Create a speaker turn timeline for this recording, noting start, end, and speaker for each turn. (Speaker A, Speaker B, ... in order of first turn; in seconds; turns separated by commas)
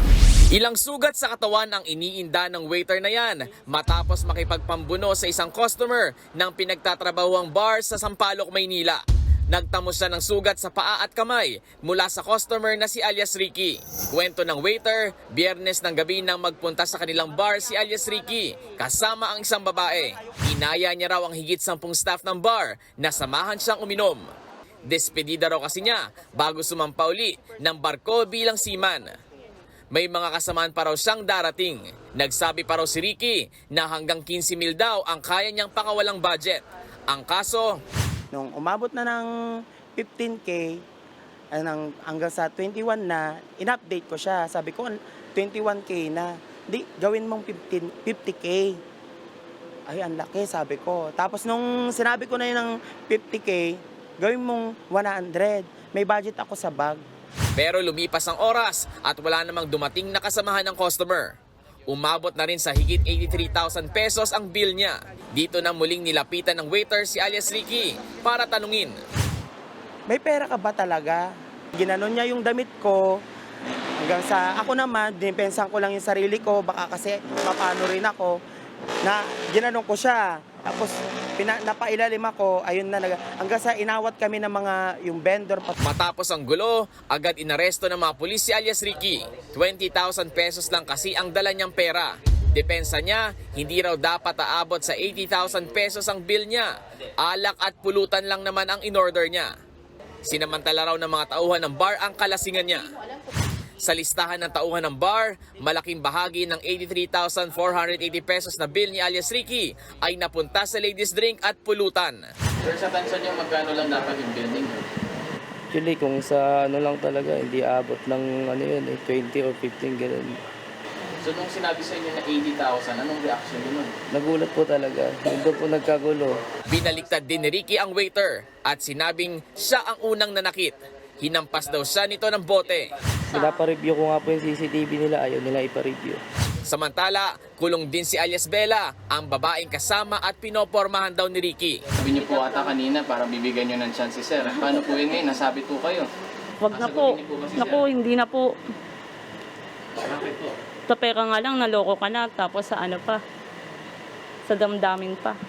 Speaker A: 0.5-24.2, Speaker A: 24.9-29.1, Speaker A: 29.9-37.8, Speaker B: 38.3-39.3, Speaker B: 39.9-40.8, Speaker B: 41.5-48.8, Speaker B: 49.9-57.0, Speaker A: 57.5-61.4, Speaker A: 61.9-69.0, Speaker B: 70.1-73.2, Speaker B: 74.0-78.4, Speaker B: 79.0-85.8, Speaker A: 85.8-99.5, Speaker A: 100.2-102.9, Speaker A: 103.8-112.2, Speaker C: 112.6-114.8, Speaker D: 115.7-120.4, Speaker C: 121.2-123.9, Speaker D: 124.1-126.4, Speaker A: 126.7-132.9, Speaker D: 133.3-136.2, Speaker A: 136.7-141.8, Speaker C: 141.9-146.1, Speaker E: 146.6-147.1, Speaker C: 146.7-147.8, Speaker E: 147.7-148.6, Speaker C: 150.0-150.5, Speaker E: 150.9-153.2, Speaker E: 154.5-155.4